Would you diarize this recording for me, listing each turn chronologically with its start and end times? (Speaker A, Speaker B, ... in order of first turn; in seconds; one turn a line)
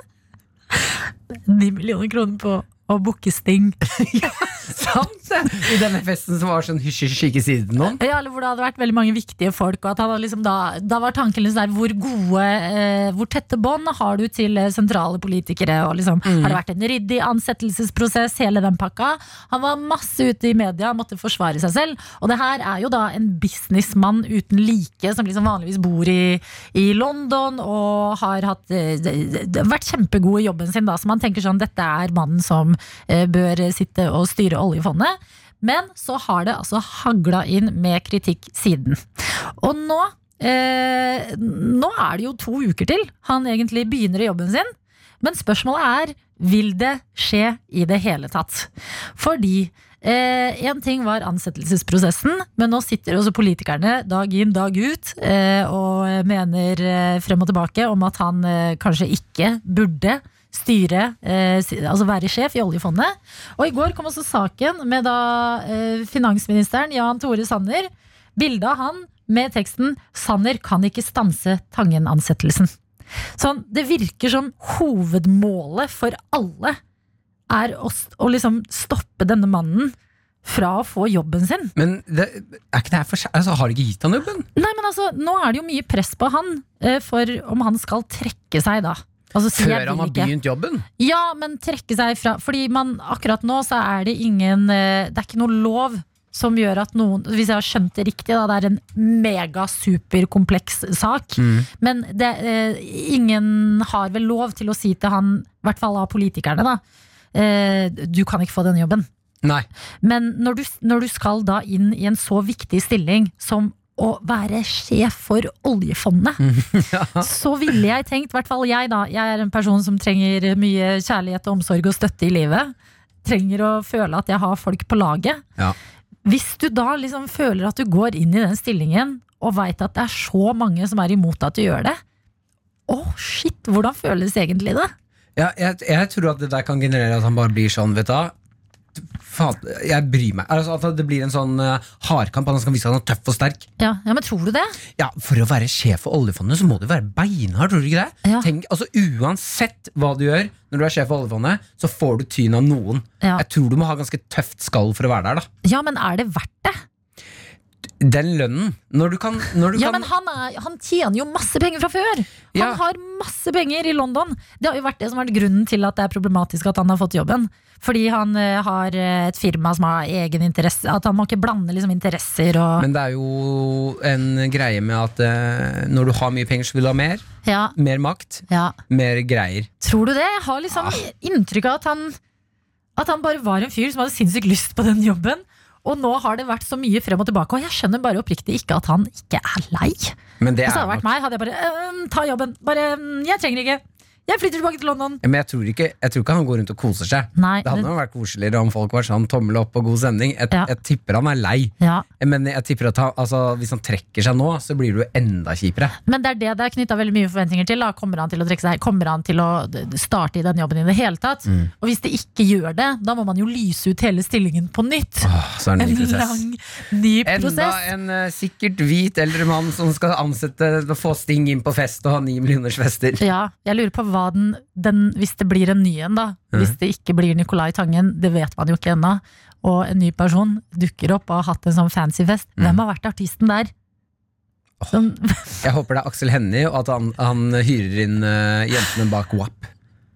Speaker A: 0.7-3.8
Speaker B: 3.9-8.0
Speaker A: 7.8-72.7
Speaker B: 16.2-16.6
Speaker A: 73.4-76.8
Speaker A: 77.5-81.7
Speaker B: 81.8-84.5
Speaker A: 84.6-90.3
Speaker B: 89.5-90.9
Speaker A: 91.0-106.8
Speaker B: 101.4-101.7
Speaker A: 107.3-109.1
Speaker A: 110.0-116.5
Speaker B: 116.4-117.3
Speaker A: 117.2-125.4
Speaker A: 126.2-132.0
Speaker A: 132.9-134.9
Speaker B: 135.4-138.3
Speaker B: 139.0-143.7
Speaker A: 143.8-144.8
Speaker B: 145.0-155.5
Speaker A: 155.6-156.8
Speaker B: 158.0-160.1
Speaker A: 159.8-172.9
Speaker B: 162.5-162.8
Speaker B: 172.8-179.7
Speaker A: 177.4-177.8
Speaker A: 178.5-178.8
Speaker A: 179.8-182.2
Speaker B: 180.7-181.0
Speaker A: 183.0-195.2
Speaker B: 190.4-191.1
Speaker B: 195.2-205.9
Speaker A: 197.4-197.9
Speaker A: 201.8-202.1
Speaker A: 206.1-217.8
Speaker B: 215.2-216.4
Speaker B: 217.2-223.2
Speaker A: 223.2-233.7
Speaker A: 234.9-235.6
Speaker B: 235.6-239.7